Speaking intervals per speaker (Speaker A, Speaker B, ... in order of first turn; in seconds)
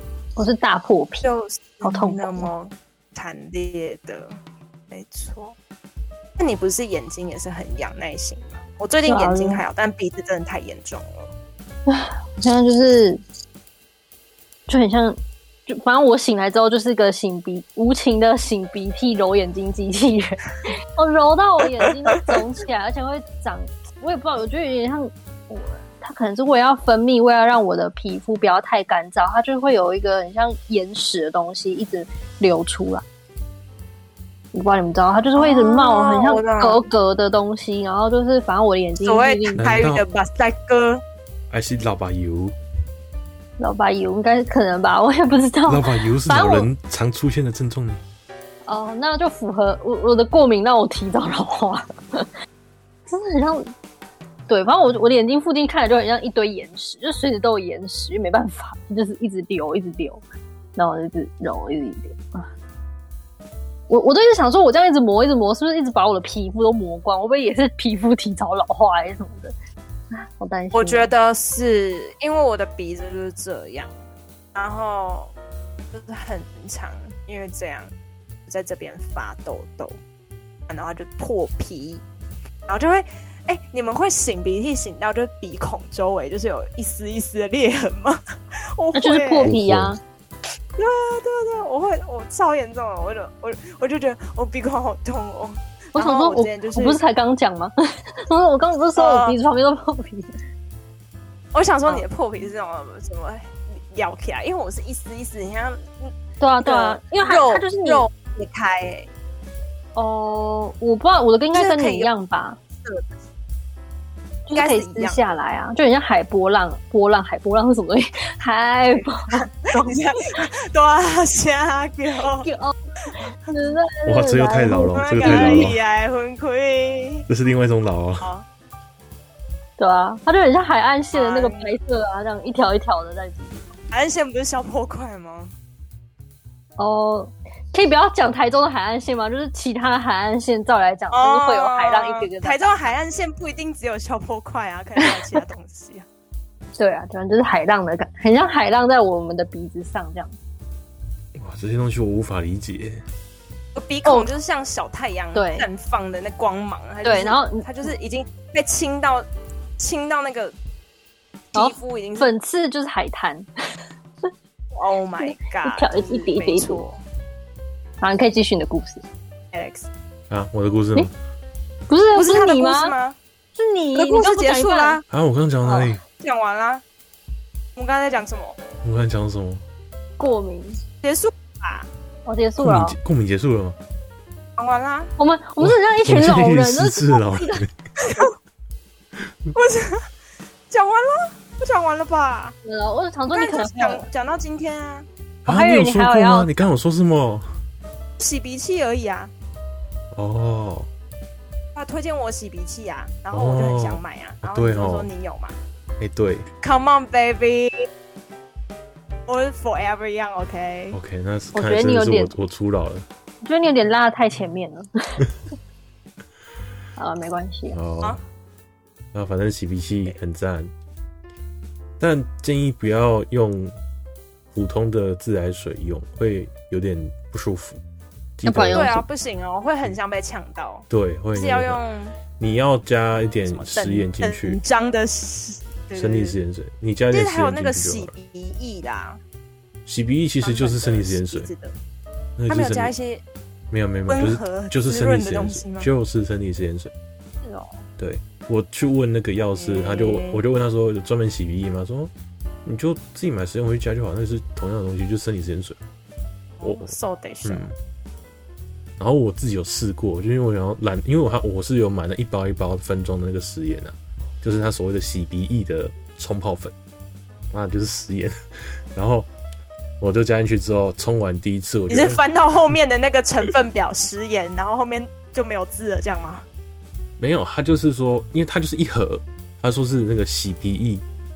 Speaker A: 0.3-1.3, 1.8-2.5, 9.0-9.6, 11.9-13.2, 14.7-33.0, 34.5-39.8, 43.6-46.7, 48.6-52.3, 53.1-53.7, 54.5-60.2, 60.8-62.5, 63.9-69.5, 70.1-71.1, 89.0-90.0, 96.0-97.7, 98.3-100.4, 106.4-108.0, 109.9-112.6, 114.5-120.0, 122.3-125.7, 129.8-133.8, 136.8-142.7, 145.0-145.4, 146.8-150.3, 154.0-154.3, 155.3-155.7, 157.0-157.9, 161.5-163.5, 165.2-166.8, 168.0-169.0, 171.9-172.9, 173.6-175.0, 175.6-175.9, 180.2-180.8, 182.2-183.0, 185.2-187.7, 192.6-194.1, 195.5-196.6, 211.5-212.3, 213.4-215.2, 217.0-217.8, 228.4-229.0
Speaker B: 1.2-4.4, 4.9-5.5, 6.4-11.3, 35.3-36.8, 39.0-41.0, 70.7-73.9, 74.5-75.3, 75.9-77.9, 78.5-80.0, 80.7-82.0, 82.7-88.2, 88.7-89.5, 90.8-97.0, 99.0-99.3, 101.5-106.1, 106.6-109.1, 111.5-112.1, 114.5-115.3, 119.3-122.5, 124.9-127.3, 128.2-128.4, 131.1-131.8, 133.9-135.5, 141.1-146.1, 153.7-159.2, 159.8-160.5, 161.5-162.3, 164.7-167.0, 169.5-169.9, 172.1-173.2, 173.9-175.0, 176.2-176.8, 177.8-178.6, 181.0-181.9, 184.6-185.1, 188.0-188.3, 189.5-190.1, 190.7-192.6, 193.3-195.1, 198.2-199.3, 201.7-205.6, 206.6-207.9, 209.3-211.0, 228.7-232.2, 233.5-236.4, 237.1-239.2, 240.4-241.7, 242.5-243.2, 244.1-245.9, 247.4-247.8, 249.6-250.4, 256.6-257.7, 271.9-276.4
Speaker C: 39.6-40.0, 41.5-42.5, 45.7-48.0, 89.4-89.9, 124.0-125.8, 127.3-128.3, 151.3-153.0, 170.3-171.1, 175.1-176.0, 178.8-179.6, 182.6-183.8, 185.6-187.7, 195.4-197.5, 200.1-200.9, 203.3-205.1, 206.0-206.5, 210.9-213.1, 217.7-218.2, 219.1-220.7, 222.0-223.7, 224.5-227.8, 228.4-228.9, 230.9-231.8, 232.4-234.6, 235.9-238.1, 239.8-241.5, 242.4-242.9, 243.7-246.9, 248.0-252.1, 252.6-255.8, 256.6-256.9, 257.4-257.7, 259.0-266.7, 267.5-268.3, 268.9-269.3, 270.0-272.2, 277.2-281.0